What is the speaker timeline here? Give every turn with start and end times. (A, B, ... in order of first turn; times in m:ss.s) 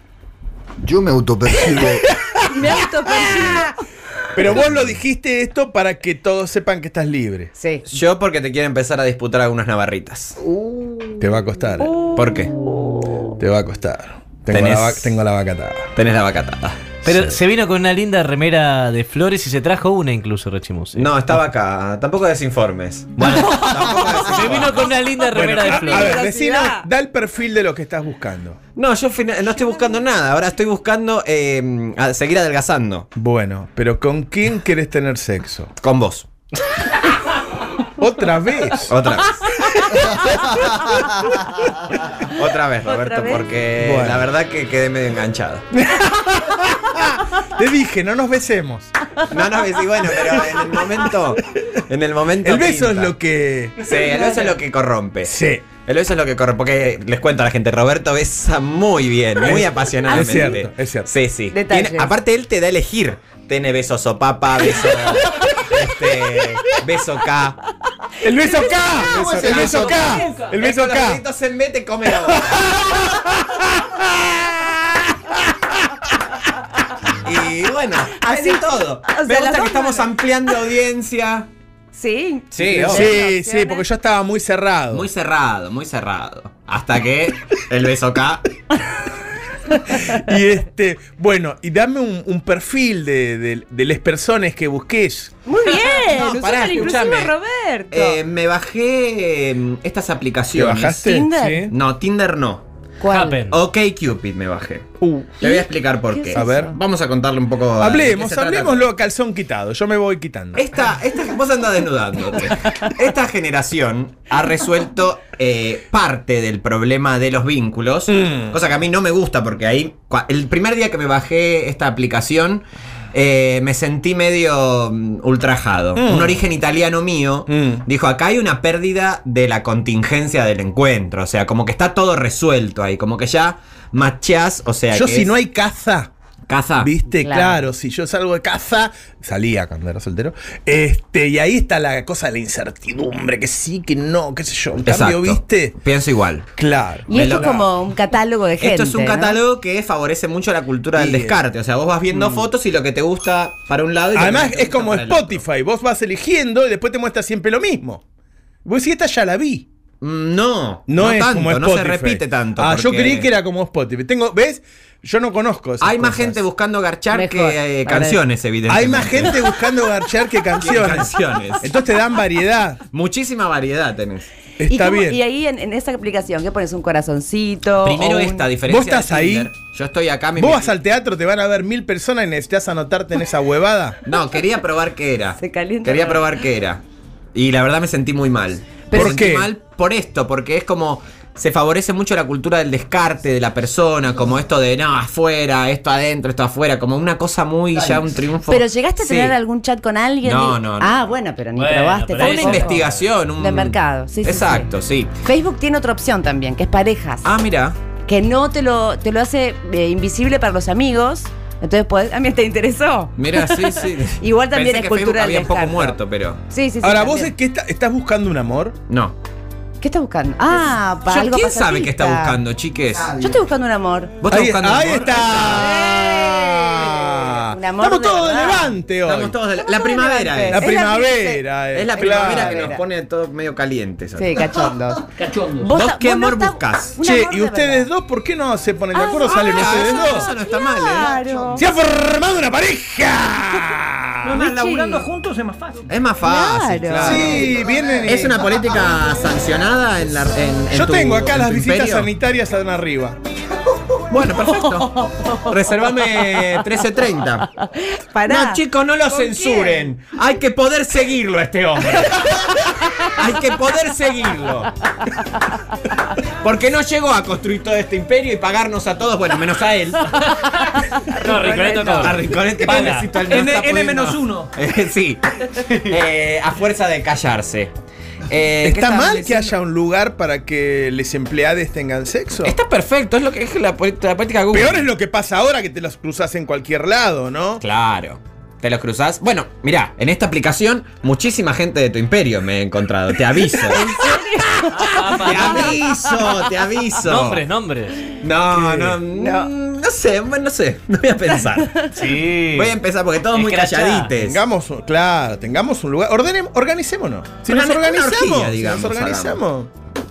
0:00.8-0:02.7 A
0:01.6-0:01.9 B
0:02.5-0:03.7 C
0:04.4-0:07.5 B
0:07.6-0:07.9 C
0:07.9-0:10.4 D
0:10.5-0:11.2 A
0:11.2-0:11.9 B
0:11.8-0:12.2 C
0:12.2-0:12.5 D
0:13.4-0:15.9 B
0:14.5-0:15.2 D
0:16.0-0:17.0 D
0:17.0-0:21.4 E
0:17.1-0:17.4 B
0:21.0-0:25.0 D
0:23.2-0:26.2 E
0:25.3-0:28.6 B
0:25.6-0:26.8 C
0:28.8-0:33.1 D
0:33.2-0:35.7 B
0:35.8-0:36.3 D
0:38.0-0:38.9 B
0:38.9-0:39.5 D
0:39.7-0:41.5 B
0:42.2-0:45.6 D
0:42.8-0:43.5 C
0:43.8-0:44.3 B
0:45.8-0:48.9 B
0:49.3-0:53.2 D
0:50.1-0:50.8 B
0:52.4-0:54.4 B
0:53.8-1:07.6 D
0:54.1-0:54.5 C
0:55.2-0:55.7 B
0:59.4-1:01.1 B
1:00.1-1:00.6 C
1:01.5-1:02.2 C
1:08.2-1:11.2 B
1:09.0-1:10.1 A
1:09.1-1:10.3 C
1:09.4-1:12.7 D
1:12.1-1:14.8 B
1:17.2-1:21.5 D
1:18.2-1:20.1 C
1:21.9-1:23.9 C
1:22.5-1:23.2 D
1:22.8-1:25.1 B
1:24.9-1:28.5 D
1:29.9-1:35.3 B
1:35.5-1:38.2 C
1:36.1-1:37.3 D
1:37.9-1:41.1 D
1:40.5-1:41.7 B
1:41.0-1:41.7 C
1:41.7-1:42.6 D
1:43.0-1:43.4 C
1:43.1-1:43.6 E
1:43.5-1:48.9 D
1:45.0-1:45.3 B
1:45.4-1:46.7 C
1:46.3-1:46.8 B
1:47.8-1:50.6 B
1:50.6-2:15.3 D
1:58.1-1:58.6 B
2:06.0-2:06.4 B
2:07.5-2:07.8 B
2:14.9-2:16.1 B
2:16.5-2:16.9 D
2:16.8-2:25.8 B
2:17.1-2:17.6 C
2:24.8-2:26.5 D
2:26.6-2:27.7 B
2:27.1-2:29.4 C
2:27.1-2:27.6 D
2:28.6-2:35.4 D
2:30.9-2:31.4 B
2:32.1-2:32.5 B
2:34.1-2:38.0 B
2:38.6-2:39.7 B
2:40.0-2:43.3 D
2:40.9-2:46.4 B
2:45.8-2:49.7 D
2:47.1-2:48.2 C
2:48.7-2:52.8 B
2:50.6-2:51.7 D
2:52.9-2:54.3 D
2:54.6-2:55.2 B
2:54.7-2:58.5 C
2:57.8-3:00.7 D
2:58.6-2:59.5 B
3:00.4-3:04.0 B
3:04.0-3:06.8 D
3:05.4-3:06.2 C
3:07.3-3:19.4 D
3:08.9-3:09.2 C
3:08.9-3:09.5 B
3:18.5-3:27.3 C
3:20.2-3:21.1 D
3:21.6-3:23.0 E
3:22.2-3:25.1 D
3:27.2-3:27.8 D
3:28.0-3:37.3 C
3:33.2-3:36.4 D
3:36.8-3:38.8 B
3:38.9-3:39.2 D
3:39.8-3:42.4 C
3:41.1-3:43.2 D
3:43.0-3:43.4 A
3:43.1-3:44.1 C
3:44.2-3:45.8 D
3:44.3-3:49.4 B
3:45.8-3:46.4 C
3:46.9-3:48.8 C
3:49.0-3:50.7 D
3:49.6-3:52.9 C
3:50.5-3:52.8 B
3:51.7-3:54.6 D
3:54.2-3:57.9 C
3:55.2-3:55.6 F
3:55.6-3:57.0 D
3:57.0-4:00.3 B
3:59.0-4:01.6 C
3:59.2-4:01.2 D
4:01.5-4:04.4 B
4:04.3-4:05.9 F
4:04.4-4:05.1 C
4:05.9-4:12.1 D
4:06.2-4:07.5 C
4:06.9-4:08.7 B
4:10.7-4:13.2 B
4:14.1-4:17.5 D
4:14.8-4:15.5 C
4:16.2-4:16.5 C
4:17.6-4:18.6 C
4:18.3-4:24.7 D
4:19.1-4:19.9 C
4:26.4-4:30.0 D
4:30.2-4:33.1 E
4:30.5-4:32.2 C
4:32.0-4:37.7 D
4:33.3-4:34.5 F
4:38.3-4:39.5 D
4:38.6-4:42.6 B
4:42.4-4:44.9 D
4:44.5-4:47.6 B
4:47.6-4:53.9 D
4:53.6-4:56.4 C
4:54.8-4:55.9 E
4:55.2-4:57.4 D
4:57.0-4:58.1 E
4:58.2-5:01.9 D
4:58.5-4:59.0 B
4:59.2-4:59.5 C
5:01.9-5:02.8 E
5:02.5-5:04.4 D
5:03.3-5:04.1 E
5:04.2-5:09.7 B
5:07.5-5:09.4 D